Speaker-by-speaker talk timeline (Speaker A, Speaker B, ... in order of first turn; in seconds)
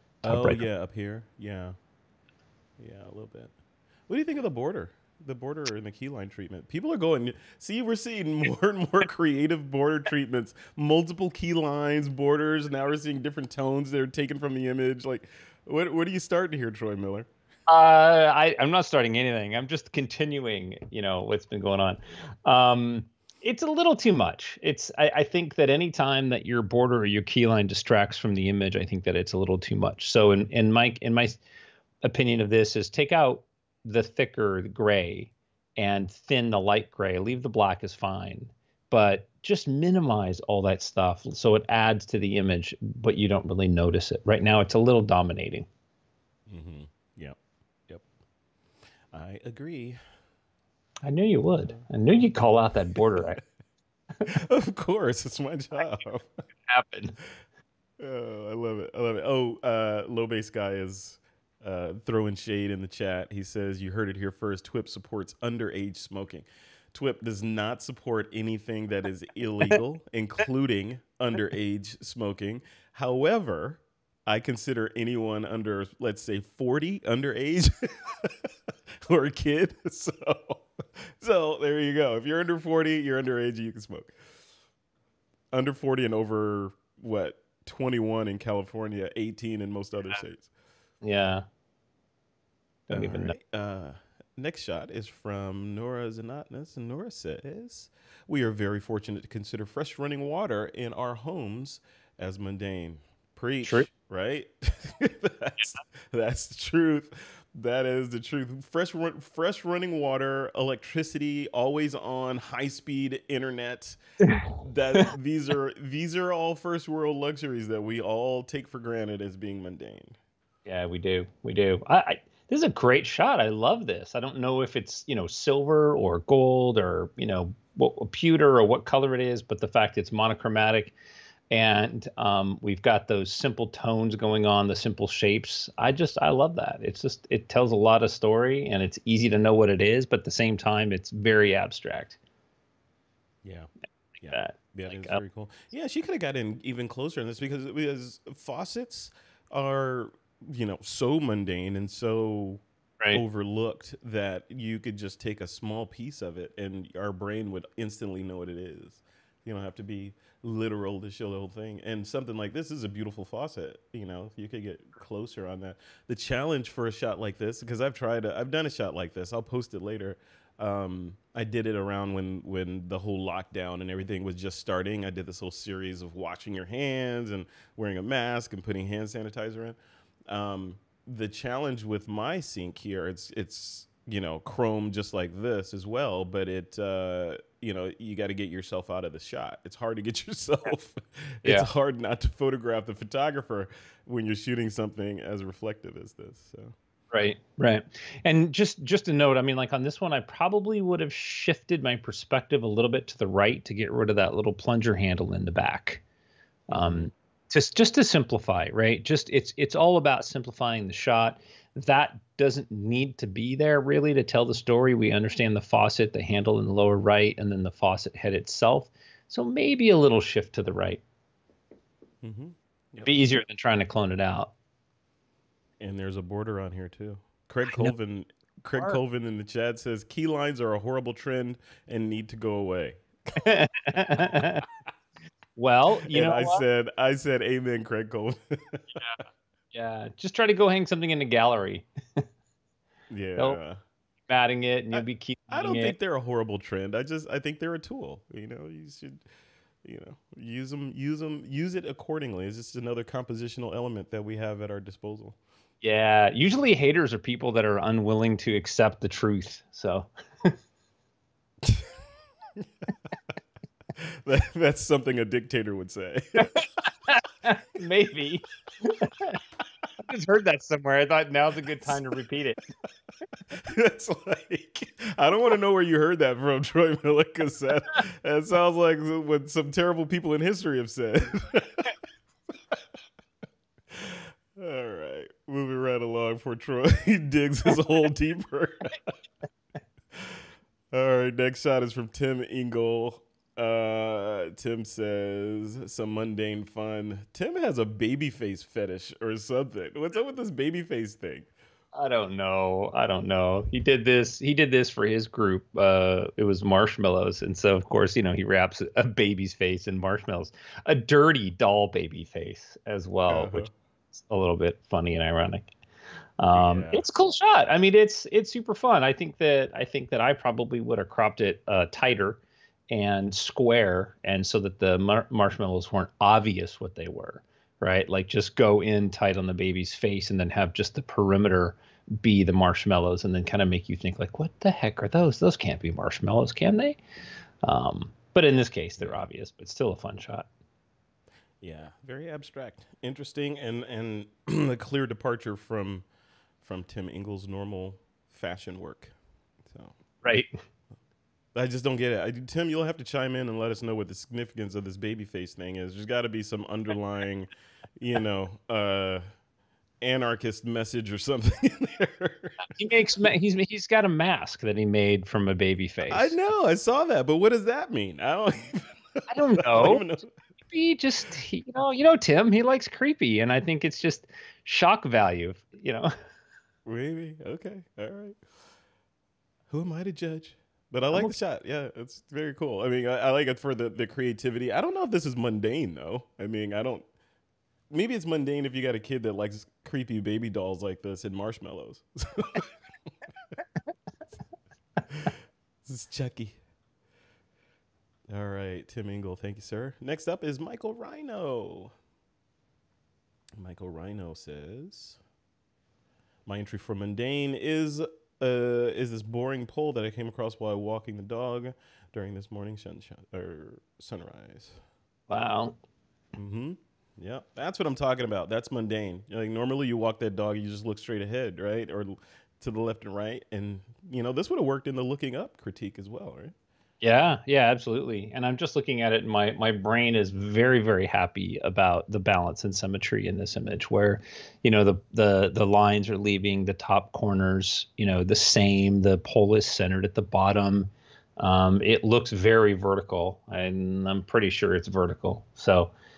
Speaker A: 0.2-0.6, 17.7-31.4, 32.0-45.7, 51.0-53.4, 56.7-57.1, 91.0-91.5, 92.9-93.3, 120.7-130.9, 131.5-142.2, 144.3-145.2, 197.1-206.0, 206.7-221.0, 223.0-224.5, 233.3-234.6, 235.6-236.6, 239.7-242.2, 244.3-245.9, 255.8-260.5, 266.4-269.4, 270.0-272.6, 301.9-315.7, 316.4-337.0, 337.6-340.5, 362.6-366.4, 369.3-370.0, 370.7-376.1, 415.3-415.8, 427.0-445.9
Speaker B: 0.2-1.8, 2.8-3.5, 4.1-17.3, 46.5-47.4, 49.1-50.0, 52.9-53.2, 54.2-56.3, 58.0-84.1, 85.5-90.5, 92.9-120.2, 144.2-196.7, 206.7-207.1, 222.2-223.1, 225.8-234.7, 236.0-239.0, 243.1-243.8, 244.9-249.2, 249.8-255.4, 261.6-261.9, 262.6-262.9, 263.9-266.5, 273.5-281.9, 283.9-289.1, 290.1-301.5, 313.3-313.7, 316.5-317.0, 339.0-339.3, 341.6-346.0, 346.6-350.0, 351.5-359.2, 360.0-362.7, 366.1-370.3, 376.9-378.4, 379.7-387.1, 387.9-392.7, 395.1-396.6, 398.3-401.9, 403.6-405.2, 406.4-414.8, 416.4-426.5